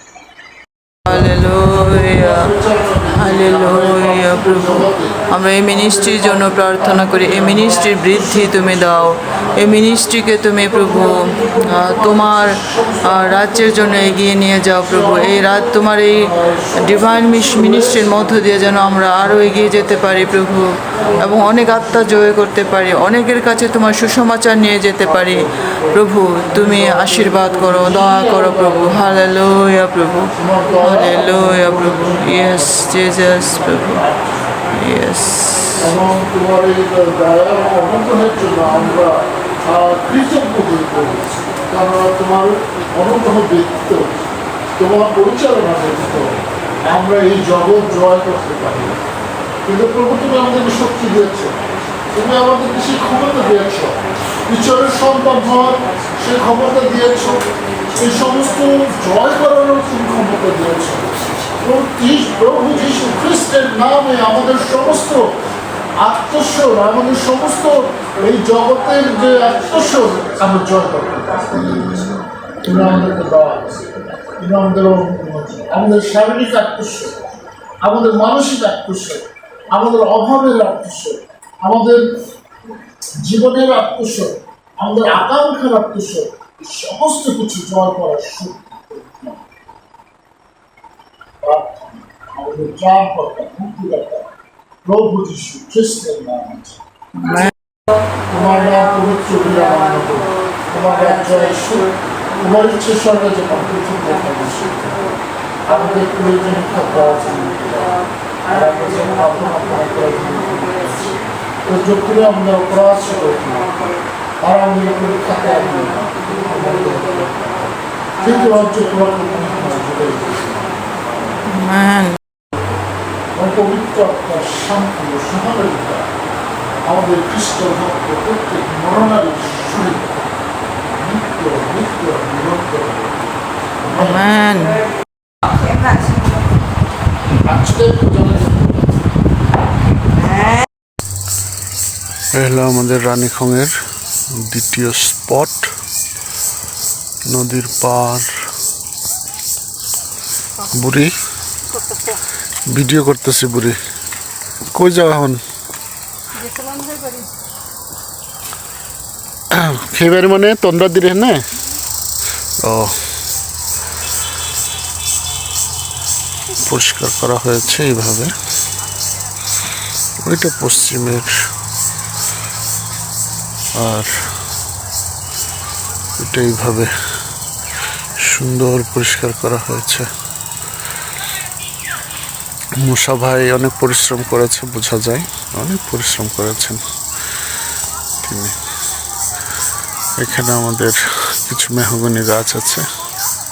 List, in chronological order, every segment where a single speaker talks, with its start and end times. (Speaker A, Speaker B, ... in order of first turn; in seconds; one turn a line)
Speaker A: 1.1-34.0
Speaker B: 2.0-9.2
Speaker B: 10.6-14.2
Speaker B: 14.8-15.5
Speaker B: 16.1-18.3
Speaker B: 25.5-25.9
Speaker B: 26.7-27.1
Speaker B: 27.9-28.8
Speaker B: 30.4-34.7
Speaker A: 34.7-35.8
Speaker B: 35.8-44.2
Speaker B: 44.8-49.0
Speaker B: 49.6-51.6
Speaker B: 52.1-65.4
Speaker B: 66.0-77.3
Speaker B: 77.8-82.0
Speaker B: 83.2-89.4
Speaker B: 91.4-94.3
Speaker B: 94.8-96.8
Speaker A: 97.2-97.5
Speaker B: 98.3-105.2
Speaker B: 105.7-113.8
Speaker B: 114.4-121.2
Speaker A: 121.4-122.2
Speaker B: 123.3-126.1
Speaker B: 126.8-130.3
Speaker B: 130.9-134.2
Speaker A: 133.9-134.8
Speaker B: 137.4-139.0
Speaker C: 142.3-143.7
Speaker C: 144.4-145.7
Speaker C: 147.3-148.2
Speaker C: 150.7-151.1
Speaker C: 152.7-153.8
Speaker C: 154.7-155.4
Speaker B: 159.6-161.4
Speaker C: 166.7-168.3
Speaker C: 170.2-171.3
Speaker C: 173.8-174.1
Speaker C: 176.2-176.9
Speaker C: 178.3-180.1
Speaker C: 182.8-186.8
Speaker C: 188.2-188.5
Speaker C: 190.2-192.8